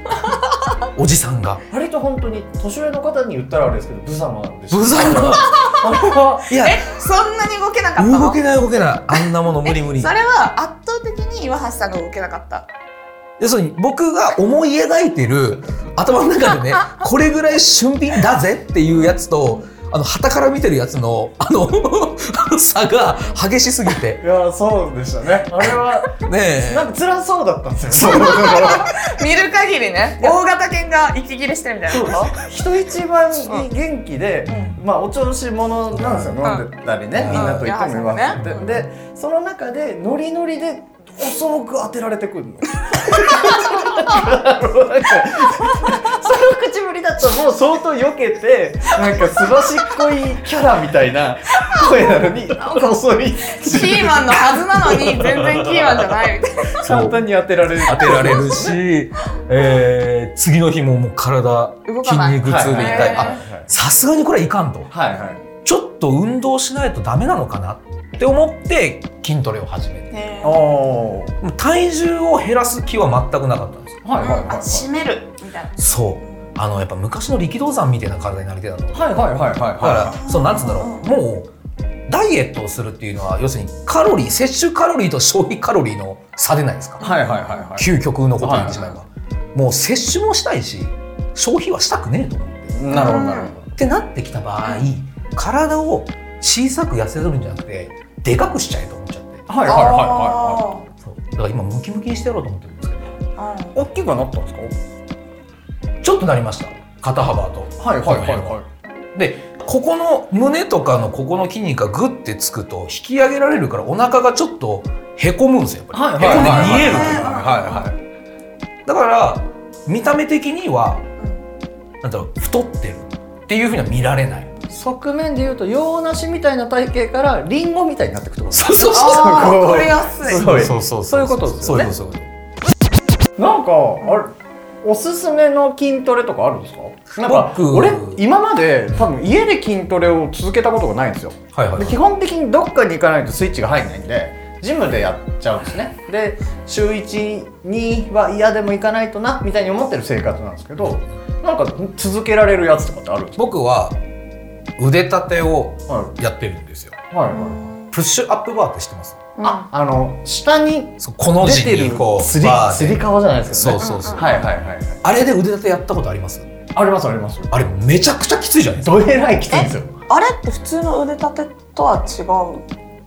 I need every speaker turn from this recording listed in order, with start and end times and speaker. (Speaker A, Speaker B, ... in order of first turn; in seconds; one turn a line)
Speaker A: 0.8-1.6
Speaker B: 1.7-6.5
Speaker A: 4.7-5.5
Speaker C: 5.2-5.8
Speaker A: 6.5-6.8
Speaker C: 6.6-8.4
Speaker A: 8.0-10.1
Speaker C: 9.1-12.7
Speaker A: 13.4-24.2
Speaker C: 18.9-19.6
Speaker B: 24.2-29.0
Speaker A: 25.6-26.9
Speaker C: 28.1-32.4
Speaker B: 31.9-55.4
Speaker A: 34.5-34.8
Speaker A: 35.9-36.4
Speaker A: 37.1-37.7
Speaker C: 37.3-38.6
Speaker A: 38.3-38.9
Speaker C: 53.5-56.9
Speaker B: 56.8-58.8
Speaker A: 56.8-57.2
Speaker A: 57.8-64.9
Speaker C: 61.9-63.4
Speaker B: 62.4-63.7
Speaker B: 64.9-65.4
Speaker A: 65.6-70.1
Speaker C: 70.1-70.7
Speaker B: 70.4-71.4
Speaker A: 71.4-74.0
Speaker B: 74.0-74.9
Speaker C: 74.2-76.3
Speaker A: 75.8-81.5
Speaker B: 78.9-80.2
Speaker C: 80.1-81.1
Speaker A: 82.1-87.1
Speaker C: 87.0-87.8
Speaker B: 87.0-87.9
Speaker A: 87.8-92.8
Speaker B: 88.4-88.9
Speaker C: 88.7-89.0
Speaker B: 92.7-93.7
Speaker C: 92.9-93.5
Speaker A: 93.8-99.5
Speaker B: 99.5-100.7
Speaker C: 99.6-100.9
Speaker A: 101.0-103.2
Speaker C: 103.4-103.8
Speaker B: 103.7-104.7
Speaker A: 106.0-108.6
Speaker B: 107.8-108.6
Speaker A: 109.1-117.4
Speaker B: 115.9-118.0
Speaker C: 116.2-117.9
Speaker A: 118.8-121.1
Speaker A: 122.0-124.5
Speaker B: 124.7-131.9
Speaker A: 128.5-129.6
Speaker C: 128.8-130.5
Speaker A: 130.3-132.3
Speaker B: 133.4-134.3
Speaker B: 134.8-153.4
Speaker A: 137.2-138.2
Speaker A: 141.5-142.0
Speaker A: 153.4-154.0
Speaker A: 154.8-157.0
Speaker B: 155.9-156.1
Speaker B: 157.1-157.7
Speaker C: 157.3-157.9
Speaker A: 157.9-159.2
Speaker C: 159.4-159.7
Speaker B: 159.4-165.0
Speaker A: 161.0-164.3
Speaker C: 163.8-164.5
Speaker A: 165.0-166.5
Speaker B: 166.7-167.6
Speaker A: 167.5-169.1
Speaker B: 168.8-169.9
Speaker C: 169.5-172.6